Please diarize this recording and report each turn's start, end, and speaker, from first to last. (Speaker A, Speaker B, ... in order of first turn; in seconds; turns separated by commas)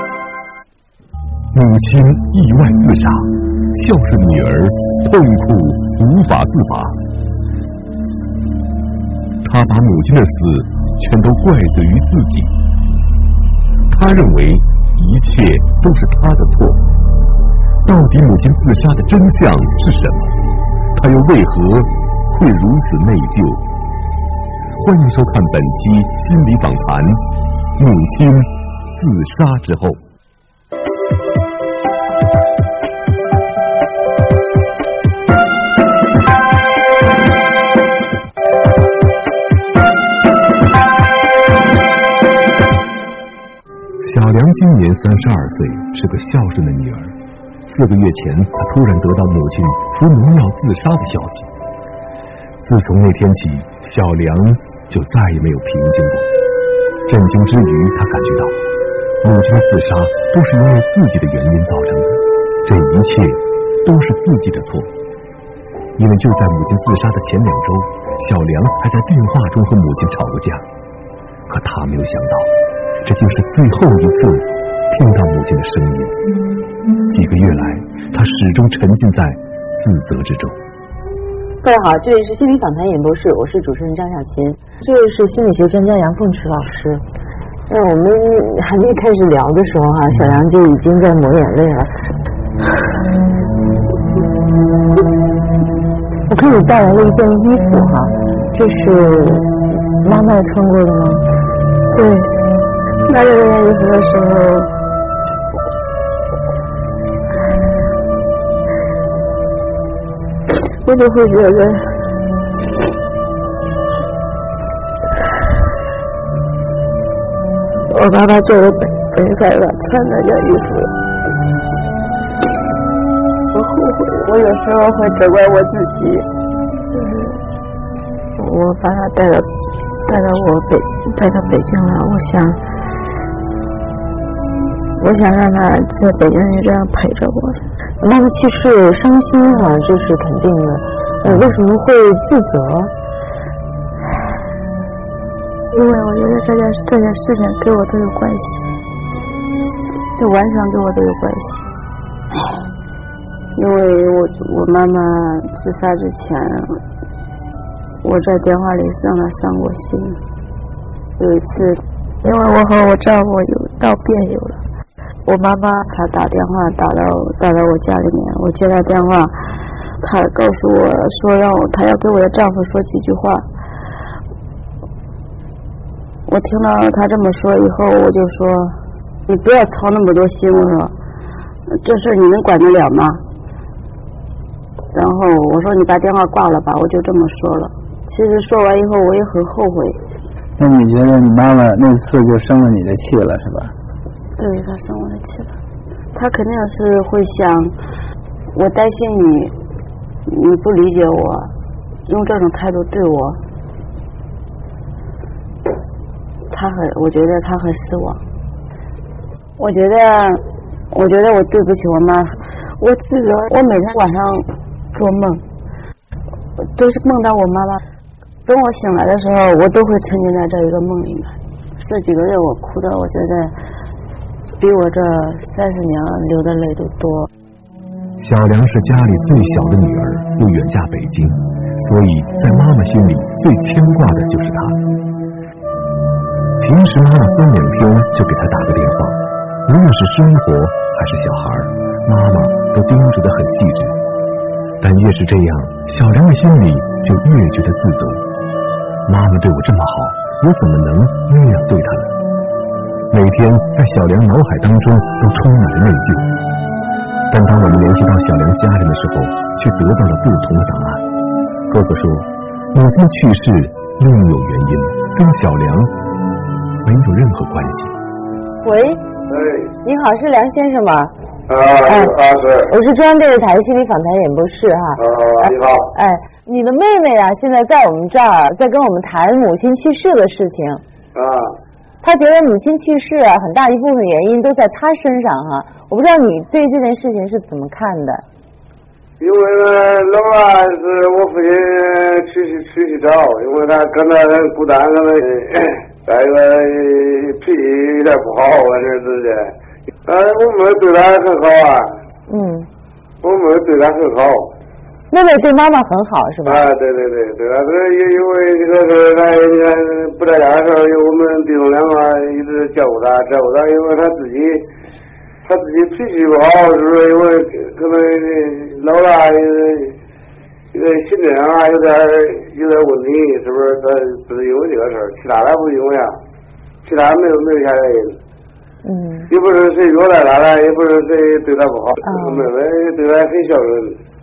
Speaker A: 1.5-7.0, Speaker A: 9.4-12.5, Speaker A: 13.9-16.8, Speaker A: 17.9-20.3, Speaker A: 21.0-23.6, Speaker A: 24.8-27.2, Speaker A: 27.8-30.0, Speaker A: 44.0-47.1, Speaker A: 47.7-51.5, Speaker A: 52.6-56.3, Speaker A: 57.1-58.5, Speaker A: 59.2-64.9, Speaker A: 66.0-70.6, Speaker A: 71.5-72.5, Speaker A: 73.0-76.1, Speaker A: 77.1-80.6, Speaker B: 81.6-87.0, Speaker B: 87.7-91.9, Speaker B: 96.3-99.5, Speaker B: 100.0-101.2, Speaker C: 101.9-102.3, Speaker C: 103.1-104.7, Speaker C: 110.7-111.9, Speaker C: 117.9-120.9, Speaker C: 123.5-126.3, Speaker C: 126.9-127.4, Speaker C: 128.4-129.5, Speaker C: 130.1-132.6, Speaker C: 135.0-137.7, Speaker B: 138.0-142.9, Speaker C: 145.7-148.6, Speaker C: 150.2-151.7, Speaker C: 153.6-156.8, Speaker C: 158.0-160.2, Speaker C: 161.2-164.6, Speaker C: 165.3-169.3, Speaker C: 170.0-173.5, Speaker C: 176.3-178.8, Speaker C: 179.3-180.9, Speaker C: 181.7-183.2, Speaker C: 184.9-190.0, Speaker D: 190.6-193.7, Speaker C: 194.4-195.5, Speaker C: 196.1-197.8, Speaker C: 198.5-199.5, Speaker C: 200.3-201.5, Speaker C: 202.1-203.4, Speaker C: 206.5-208.2, Speaker C: 209.6-215.4, Speaker C: 216.8-217.8, Speaker C: 218.4-223.6, Speaker C: 224.6-227.3, Speaker A: 228.2-234.8, Speaker A: 236.6-244.0, Speaker A: 244.8-248.2, Speaker A: 249.1-252.2, Speaker A: 253.1-256.3, Speaker A: 257.3-261.0, Speaker A: 261.7-265.9, Speaker A: 266.8-267.9, Speaker B: 268.6-269.1, Speaker E: 269.3-269.6, Speaker B: 269.8-271.1, Speaker E: 271.5-272.7, Speaker B: 271.8-280.8, Speaker E: 275.0-275.9, Speaker E: 281.1-281.5, Speaker B: 282.0-288.2, Speaker E: 289.2-299.5, Speaker E: 300.1-301.9, Speaker B: 302.3-302.7, Speaker E: 303.2-304.5, Speaker B: 305.1-306.7, Speaker E: 306.4-314.6, Speaker E: 315.4-319.9, Speaker E: 320.7-326.2, Speaker E: 326.9-328.2, Speaker B: 328.8-329.3, Speaker E: 329.3-333.9, Speaker B: 332.0-332.5